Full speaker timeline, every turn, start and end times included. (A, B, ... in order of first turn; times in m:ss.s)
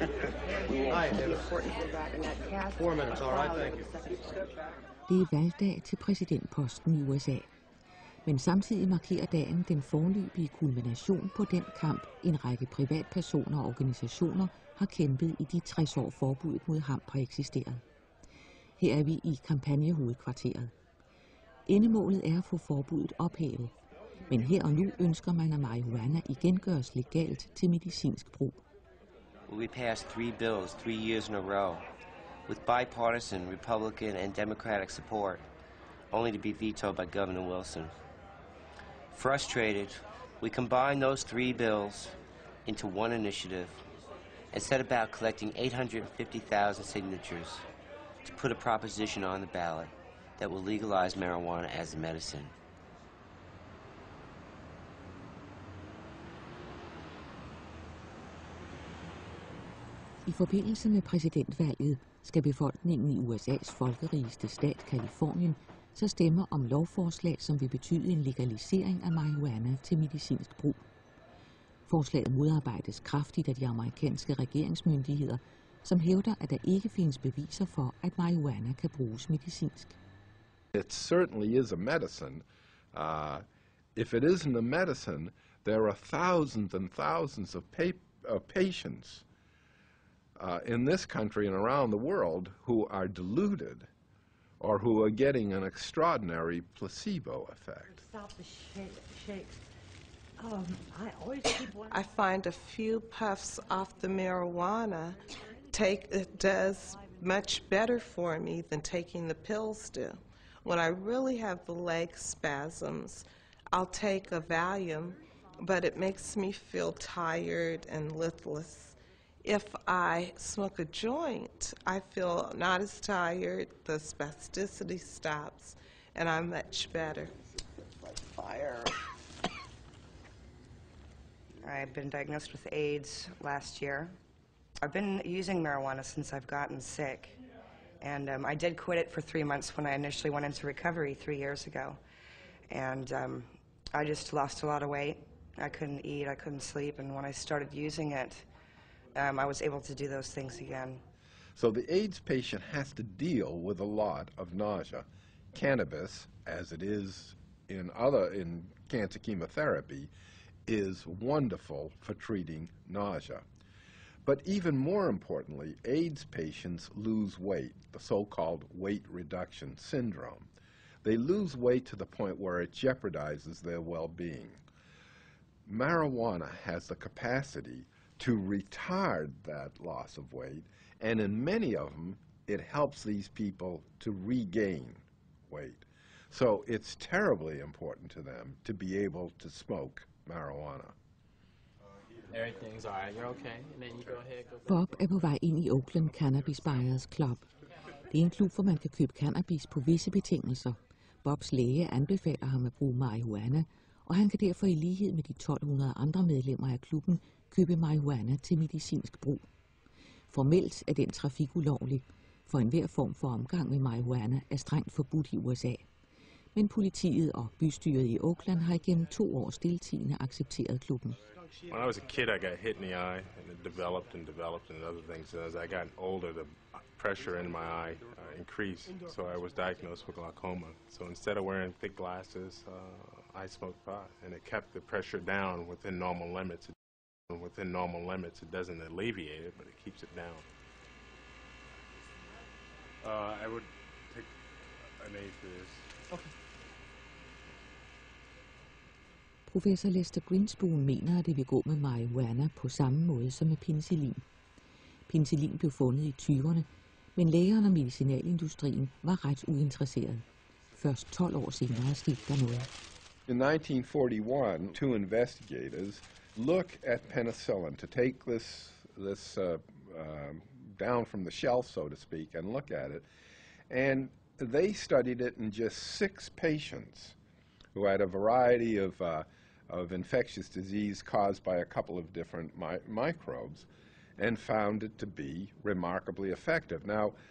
0:00.6-0:04.3 A
0:05.1-0:07.5 B
0:08.3-0:17.8 B
0:18.8-0:20.7 B
0:21.7-0:23.7 B
0:24.3-0:28.6 B
0:29.5-0:31.8 C
0:32.5-0:35.4 C
0:36.1-0:38.0 C
0:39.1-0:43.8 C
0:44.5-0:47.6 C
0:48.2-0:52.5 C
1:00.3-1:10.8 B
1:11.9-1:20.0 B
1:20.7-1:29.2 D
1:30.4-1:33.9 D
1:34.6-1:38.0 D
1:38.1-1:39.6 E
1:40.4-1:41.4 E
1:41.9-2:07.4 F
2:08.0-2:08.9 A
2:11.6-2:14.1 A
2:14.8-2:17.4 A
2:18.0-2:22.0 A
2:22.7-2:28.5 A
2:29.2-2:31.0 A
2:31.6-2:40.1 D
2:40.7-2:43.4 D
2:44.2-2:50.5 D
2:51.0-2:54.6 D
2:55.7-3:10.9 D
3:12.3-3:14.7 G
3:14.7-3:17.5 B
3:18.1-3:29.4 B
3:30.3-3:35.9 B
3:36.6-3:41.2 B
3:41.7-3:56.8 H
3:57.3-4:00.4 H
4:03.0-4:04.4 H
4:05.0-4:06.0 H
4:09.5-4:14.2 B
4:15.1-4:20.2 B
4:20.8-4:22.7 B
4:23.3-4:33.1 D
4:33.7-4:37.2 D
4:37.8-4:47.2 D